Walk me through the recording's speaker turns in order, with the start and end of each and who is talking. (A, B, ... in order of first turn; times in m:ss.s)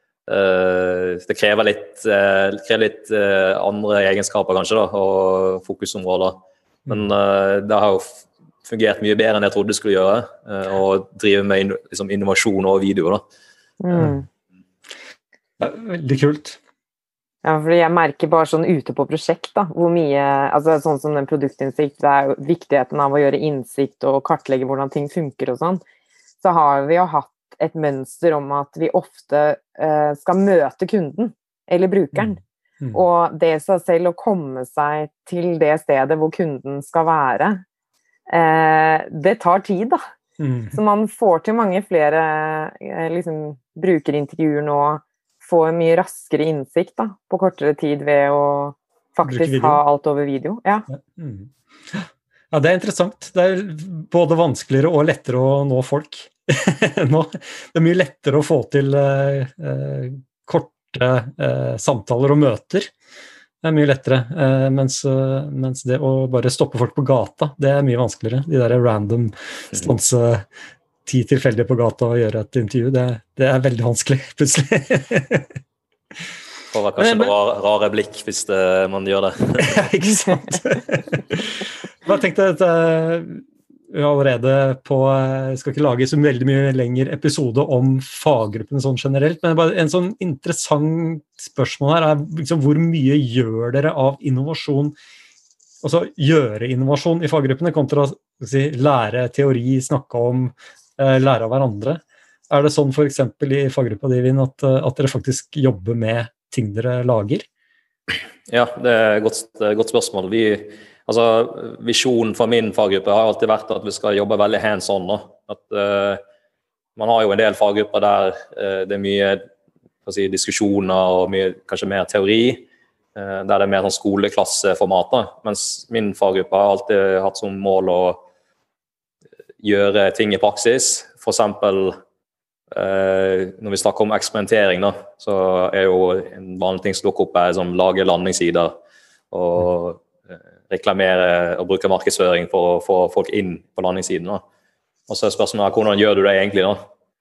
0:00.3-0:08.0 A
0:08.6-0:13.2 A
0:13.8-0:14.2 B
0:15.6-0:16.6 C
0:17.4-0:25.8 B
0:26.4-0:32.4 B
0:32.1-0:33.0 C
0:32.9-0:37.6 B
0:38.3-0:40.0 B
0:40.4-0:40.8 C
0:40.7-0:50.8 B
0:49.2-0:49.8 C
0:51.1-1:02.9 C
1:03.6-1:10.4 C
1:11.0-1:15.5 C
1:16.7-1:19.9 A
1:17.0-1:17.3 C
1:19.6-1:34.9 C
1:35.8-1:47.4 C
1:48.5-1:56.2 A
1:57.0-1:59.4 A
2:00.0-2:08.2 A
2:09.6-2:11.9 A
2:12.7-2:18.7 A
2:19.3-2:20.1 A
2:20.7-2:24.4 A
2:25.1-2:26.8 A